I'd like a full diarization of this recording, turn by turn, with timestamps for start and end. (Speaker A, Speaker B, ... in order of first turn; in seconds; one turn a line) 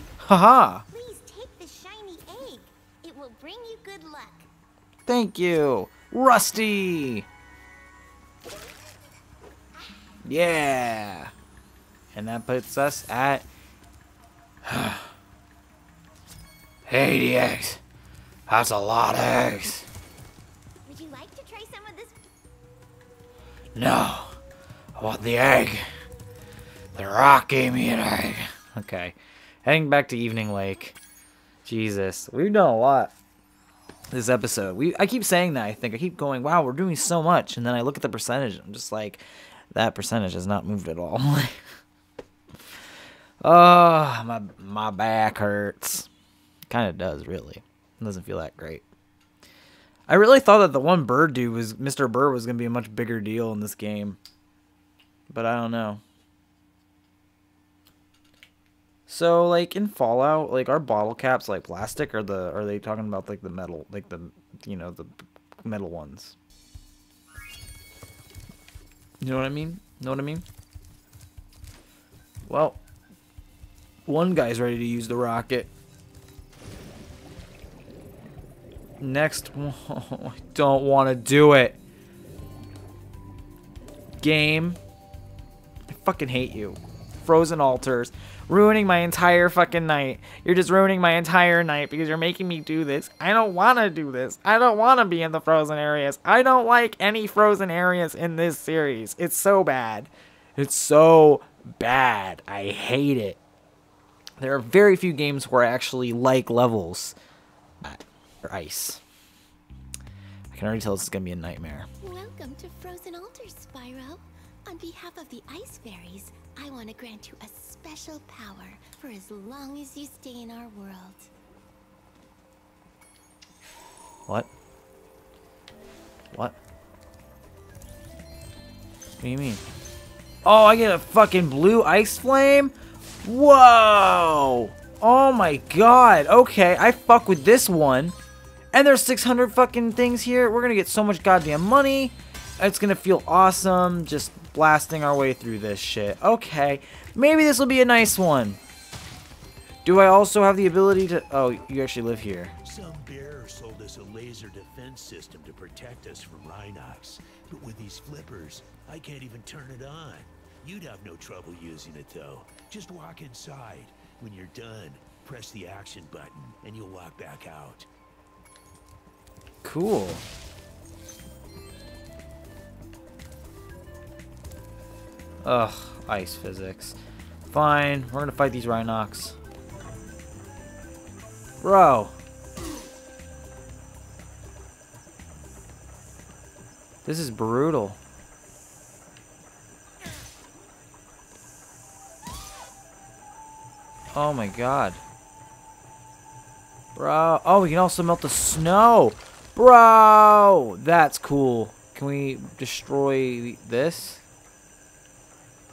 Speaker A: 0.2-0.8
Speaker B: 0.9-4.5
Speaker A: 5.1-7.3
Speaker A: 10.2-11.3
Speaker A: 12.1-13.5
Speaker A: 14.6-15.1
Speaker A: 16.9-17.8
Speaker A: 18.5-19.9
Speaker B: 20.9-22.2
Speaker A: 23.8-24.4
Speaker A: 25.0-25.9
Speaker A: 26.9-31.0
Speaker A: 31.6-33.1
Speaker A: 34.1-41.6
Speaker A: 43.4-46.1
Speaker A: 46.7-48.8
Speaker A: 50.1-54.2
Speaker A: 55.3-56.0
Speaker A: 59.1-66.4
Speaker A: 69.2-70.4
Speaker A: 72.5-72.8
Speaker A: 74.1-75.7
Speaker A: 79.0-81.8
Speaker A: 84.2-84.8
Speaker A: 85.9-103.4
Speaker A: 104.4-107.2
Speaker A: 107.8-109.0
Speaker A: 110.5-111.9
Speaker B: 112.0-121.3
Speaker A: 129.2-129.6
Speaker A: 130.4-132.7
Speaker A: 133.2-138.2
Speaker A: 138.7-148.6
Speaker A: 149.8-152.5
Speaker C: 152.6-167.9
Speaker A: 169.6-170.2
Speaker A: 175.4-177.0
Speaker A: 177.5-179.4
Speaker A: 181.6-182.2
Speaker A: 187.1-188.0
Speaker A: 194.1-195.0
Speaker A: 196.9-204.2